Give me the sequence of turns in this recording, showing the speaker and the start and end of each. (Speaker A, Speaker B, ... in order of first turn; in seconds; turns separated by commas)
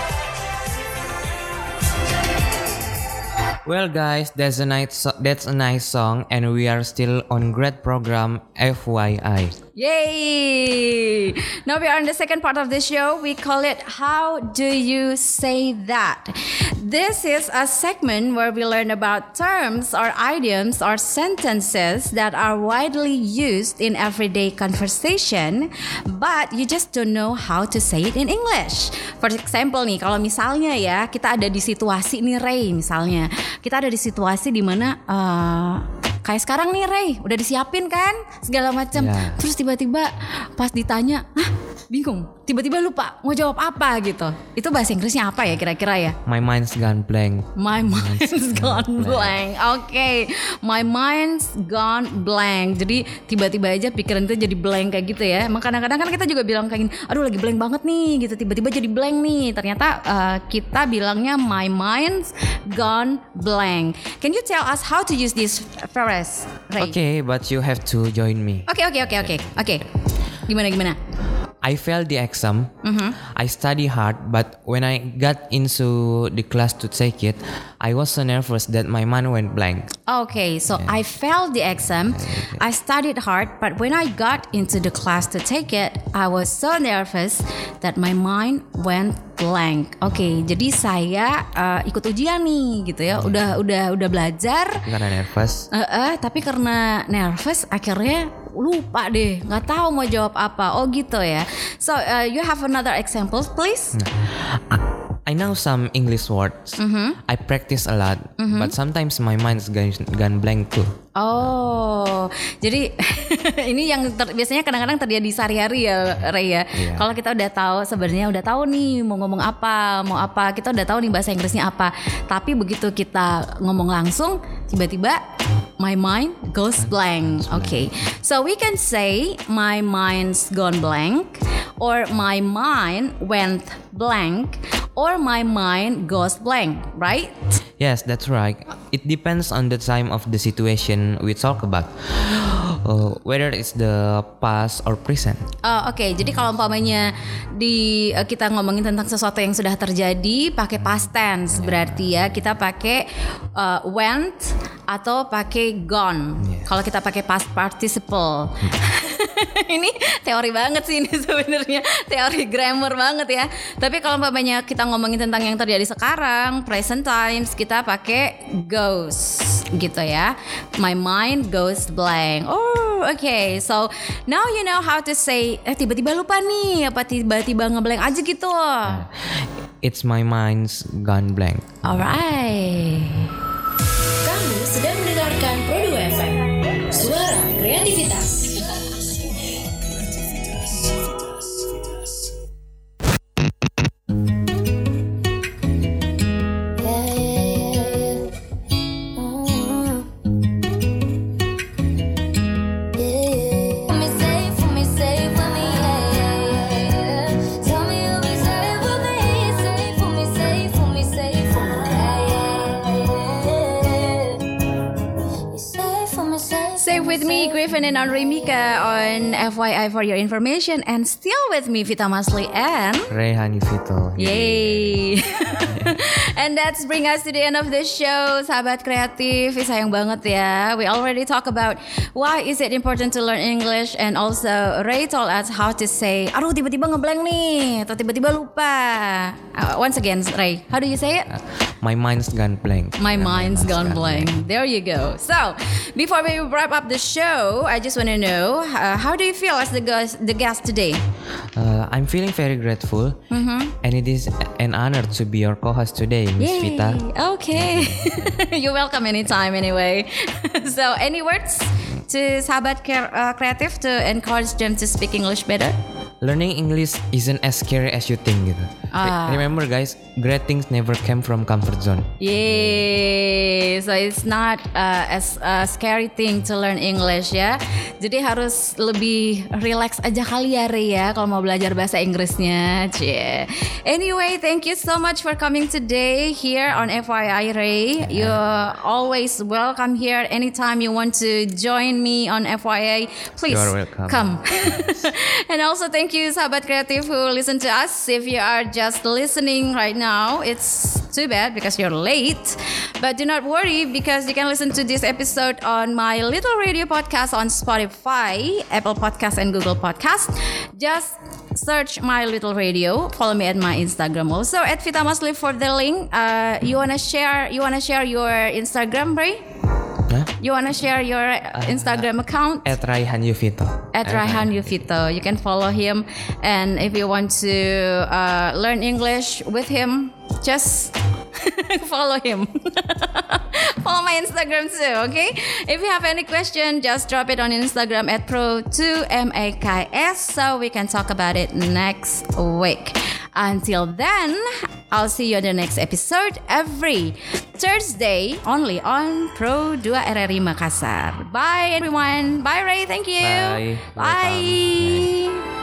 Speaker A: 3.6-9.5, Speaker B: 9.7-46.2, Speaker A: 38.9-39.4, Speaker A: 46.2-49.4, Speaker B: 47.6-66.9, Speaker A: 66.8-69.5, Speaker B: 68.7-69.8, Speaker B: 70.5-71.0, Speaker A: 71.6-79.9, Speaker B: 72.8-73.2, Speaker B: 80.1-94.8, Speaker A: 82.3-82.6, Speaker A: 94.8-95.7, Speaker B: 95.7-104.0, Speaker A: 103.9-110.9, Speaker B: 106.8-107.2, Speaker B: 108.4-108.7, Speaker B: 111.2-125.2, Speaker A: 116.7-117.1, Speaker B: 125.8-137.5, Speaker A: 126.8-127.9, Speaker A: 137.8-145.5, Speaker B: 145.6-179.0, Speaker A: 151.5-152.3, Speaker A: 156.4-156.7, Speaker A: 178.8-181.7, Speaker B: 181.8-183.3, Speaker C: 184.2-189.5, Speaker C: 196.8-198.3, Speaker C: 199.2-200.1, Speaker C: 202.9-214.4, Speaker C: 215.5-217.7, Speaker B: 216.8-223.1, Speaker A: 223.1-225.0, Speaker B: 224.2-241.3, Speaker A: 241.3-244.3, Speaker B: 243.0-251.0, Speaker A: 251.5-257.0, Speaker B: 253.3-253.7, Speaker B: 256.4-265.8, Speaker A: 257.5-258.4, Speaker A: 266.2-272.9, Speaker B: 268.9-269.5, Speaker B: 272.2-319.4, Speaker A: 288.0-288.4, Speaker A: 293.4-295.1, Speaker B: 320.4-322.7, Speaker A: 321.5-322.1, Speaker A: 322.6-324.8, Speaker B: 323.9-355.4, Speaker A: 353.2-355.1